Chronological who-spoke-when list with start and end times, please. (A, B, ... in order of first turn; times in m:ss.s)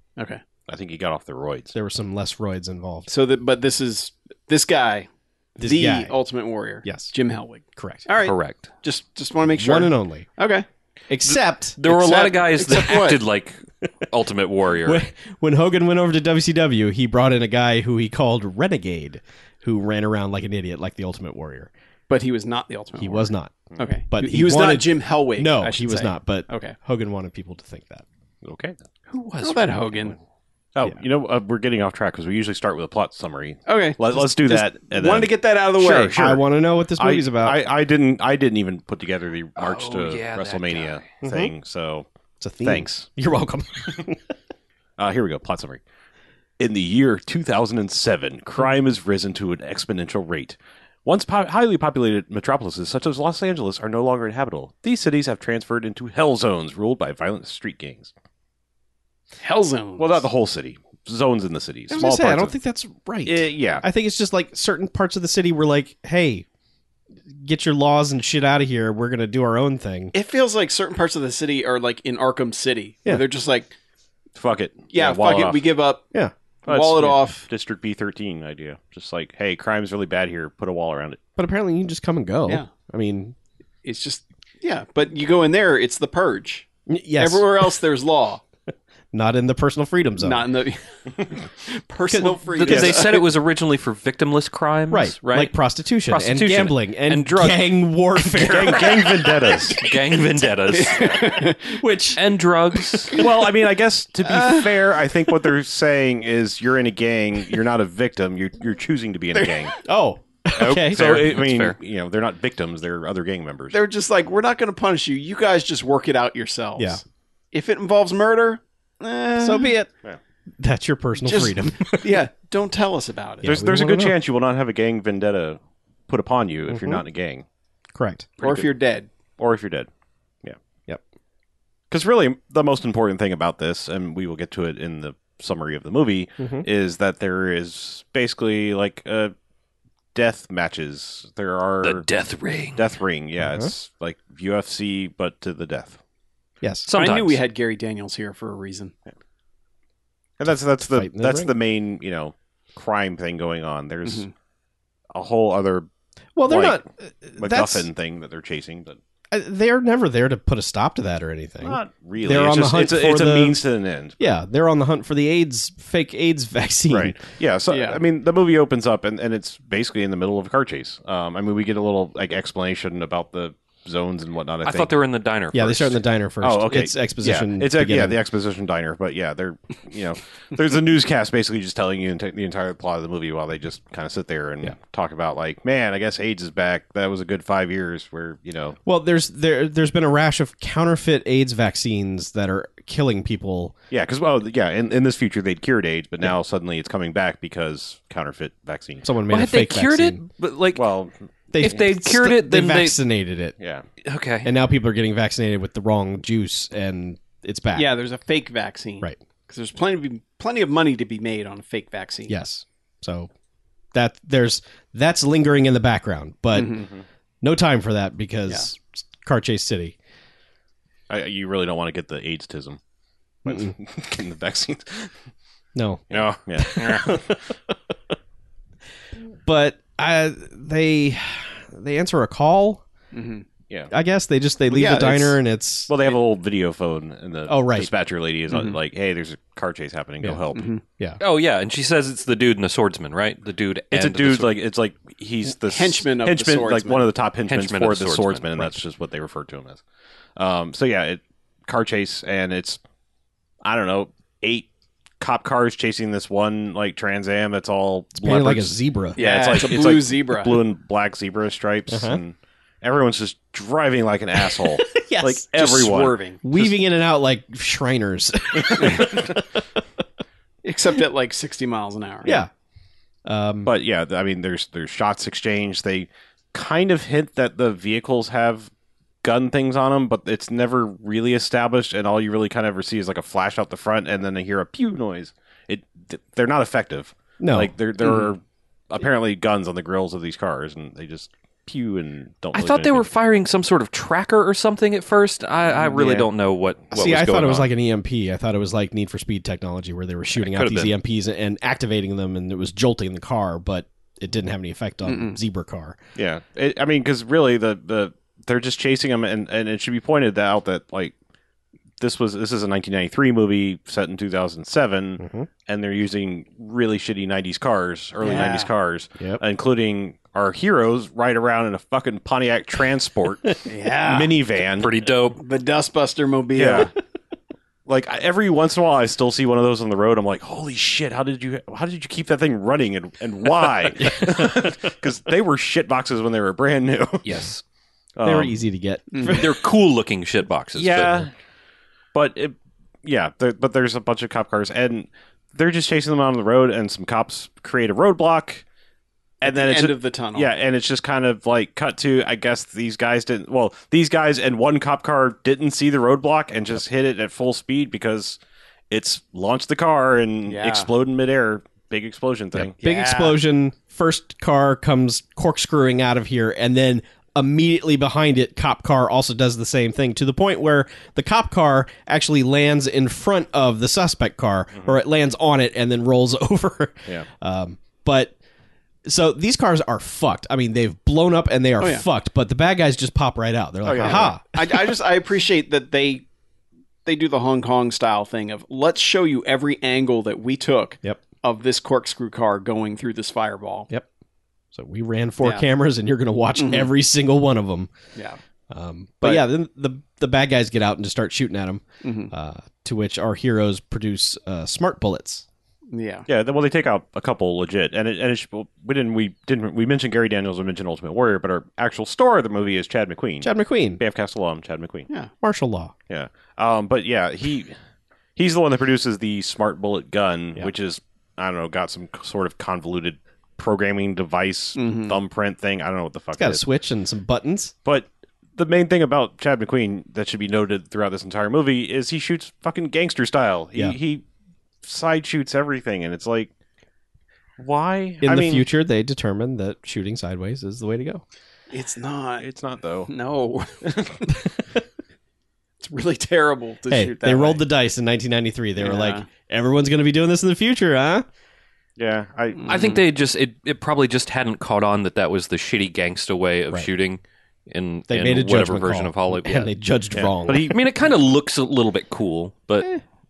0:00.7-0:01.7 A
0:01.7-0:03.1 B
0:03.1-0:10.6 C
0:05.6-0:06.1 B
0:06.8-0:07.1 B
0:07.7-0:08.0 B
0:08.2-0:08.7 D
0:09.6-0:10.3 B
0:11.1-0:11.8 B
0:11.3-0:15.0 D
0:11.8-0:13.2 C
0:14.8-0:21.7 B
0:22.1-0:26.8 C
0:23.0-0:28.0 B
0:28.4-0:28.8 A
0:29.1-0:30.2 D
0:29.4-0:30.2 C
0:30.8-0:42.1 A
0:33.7-0:36.1 C
0:35.9-0:37.6 B
0:39.6-0:41.1 D
0:41.2-0:41.5 B
0:42.4-0:44.3 B
0:42.6-0:43.1 A
0:45.0-0:45.8 A
0:46.6-0:58.1 A
0:59.4-1:00.2 C
1:00.0-1:02.5 A
1:01.9-1:06.4 B
1:03.2-1:03.8 A
1:07.4-1:10.1 B
1:10.1-1:13.7 C
1:14.3-1:15.6 A
1:14.9-1:16.1 C
1:16.6-1:21.2 A
1:16.7-1:17.5 C
1:21.4-1:23.3 B
1:23.8-1:28.4 C
1:26.9-1:27.7 B
1:29.1-1:30.4 B
1:30.2-1:33.2 C
1:32.1-1:32.4 B
1:32.5-1:35.5 D
1:32.6-1:33.1 A
1:34.9-1:39.3 B
1:36.1-1:38.9 D
1:38.4-1:39.8 A
1:39.7-1:41.4 D
1:40.7-1:41.8 C
1:41.7-1:42.2 B
1:42.2-1:43.2 D
1:43.1-1:49.8 A
1:44.4-1:44.6 C
1:49.8-1:51.0 B
1:50.6-1:53.8 A
1:50.6-1:51.8 D
1:53.7-1:59.7 C
1:59.4-1:59.9 B
2:00.6-2:02.2 B
2:01.2-2:03.6 C
2:03.4-2:04.2 B
2:03.4-2:07.4 A
2:06.7-2:07.0 B
2:07.9-2:08.3 B
2:08.4-2:08.7 A
2:08.4-2:09.1 C
2:09.4-2:09.9 A
2:11.9-2:19.3 A
2:16.4-2:16.6 B
2:20.1-2:22.1 A
2:21.8-2:22.9 D
2:22.7-2:26.0 A
2:23.4-2:23.7 B
2:26.6-2:26.9 B
2:26.9-2:27.4 D
2:26.9-2:28.9 C
2:30.4-2:34.3 A
2:30.9-2:31.5 B
2:34.0-2:34.3 C
2:35.1-2:35.9 A
2:36.4-2:37.9 B
2:36.4-2:36.8 A
2:37.4-2:39.0 A
2:39.3-2:43.6 B
2:41.6-2:44.4 A
2:44.2-2:47.2 B
2:46.9-2:54.9 A
2:47.7-2:48.0 C
2:54.6-2:56.0 D
2:55.5-2:58.2 B
2:56.4-3:08.8 A
3:08.8-3:13.7 B
3:13.9-3:19.0 A
3:19.0-3:20.2 B
3:19.3-3:20.8 D
3:20.7-3:21.1 A
3:21.5-3:23.6 B
3:21.6-3:23.0 D
3:23.6-3:23.8 A
3:24.0-3:24.5 D
3:24.4-3:27.9 B
3:27.7-3:32.4 C
3:32.3-3:33.3 B
3:33.9-3:36.8 B
3:36.5-3:36.9 C
3:37.4-3:40.0 B
3:41.1-3:42.8 A
3:43.4-3:45.1 A
3:43.4-3:43.7 B
3:45.7-3:47.7 B
3:46.1-3:47.4 A
3:49.4-3:52.8 B
3:53.1-3:53.4 C
3:53.9-3:55.9 B
3:54.7-3:55.4 C
3:55.9-4:00.8 A
3:57.5-3:57.9 B
3:58.5-3:58.8 C
4:00.5-4:00.8 C
4:01.2-4:04.6 D
4:03.9-4:09.8 A
4:05.7-4:07.1 C
4:07.5-4:08.5 D
4:10.4-4:12.8 A
4:13.6-4:14.7 A
4:15.2-4:26.7 A
4:18.2-4:19.2 B
4:19.2-4:20.5 C
4:21.9-4:22.2 B
4:24.6-4:25.4 B
4:25.6-4:26.4 C
4:26.4-4:29.6 B
4:28.5-4:29.3 A
4:28.8-4:29.1 C
4:30.6-4:32.5 C
4:32.2-4:32.5 B
4:33.2-4:33.7 B
4:33.6-4:38.7 A
4:39.2-4:53.1 A
4:47.4-4:47.7 B
4:48.0-4:48.3 C
4:52.5-4:57.7 D
4:55.9-4:56.2 C
4:56.9-5:06.0 B
5:00.3-5:00.9 D
5:05.0-5:05.4 C
5:06.1-5:11.1 A
5:12.0-5:24.9 A
5:15.2-5:15.5 B
5:18.2-5:18.7 C
5:23.6-5:24.3 C
5:24.8-5:25.4 D
5:25.3-5:26.9 C
5:26.5-5:26.9 A
5:27.8-5:37.4 A
5:34.0-5:34.6 B
5:37.2-5:37.6 D
5:38.2-5:38.6 A
5:38.2-5:39.5 B
5:39.1-5:39.4 C
5:39.2-5:41.3 D
5:40.7-5:41.3 A
5:42.1-5:48.6 A
5:49.4-5:58.4 A
5:49.4-5:50.5 C
5:58.9-6:02.7 A
6:00.5-6:00.9 C
6:02.6-6:18.3 B
6:02.8-6:03.4 C
6:14.7-6:15.0 A
6:19.0-6:24.4 B
6:23.8-6:24.4 A
6:24.0-6:26.2 C
6:27.0-6:33.9 C
6:34.7-6:37.9 B
6:36.6-6:36.9 C
6:38.7-6:45.4 B
6:42.0-6:42.3 C
6:45.9-6:46.3 C
6:46.3-6:55.1 A
6:53.4-6:54.0 B
6:55.4-6:55.9 B
6:56.1-6:57.7 A
6:58.4-7:06.6 A
7:04.8-7:05.2 C
7:06.4-7:07.7 B
7:07.8-7:14.2 A
7:14.8-7:16.5 A
7:17.6-7:18.7 A
7:18.2-7:21.2 B
7:21.7-7:22.4 C
7:22.4-7:23.1 A
7:23.1-7:24.3 C
7:23.8-7:24.3 A
7:25.8-7:27.6 C
7:26.9-7:31.2 B
7:28.8-7:29.2 C
7:32.0-7:33.0 A
7:32.5-7:33.0 C
7:32.6-7:39.7 D
7:38.1-7:40.7 B
7:40.1-7:40.8 A
7:40.5-7:42.9 D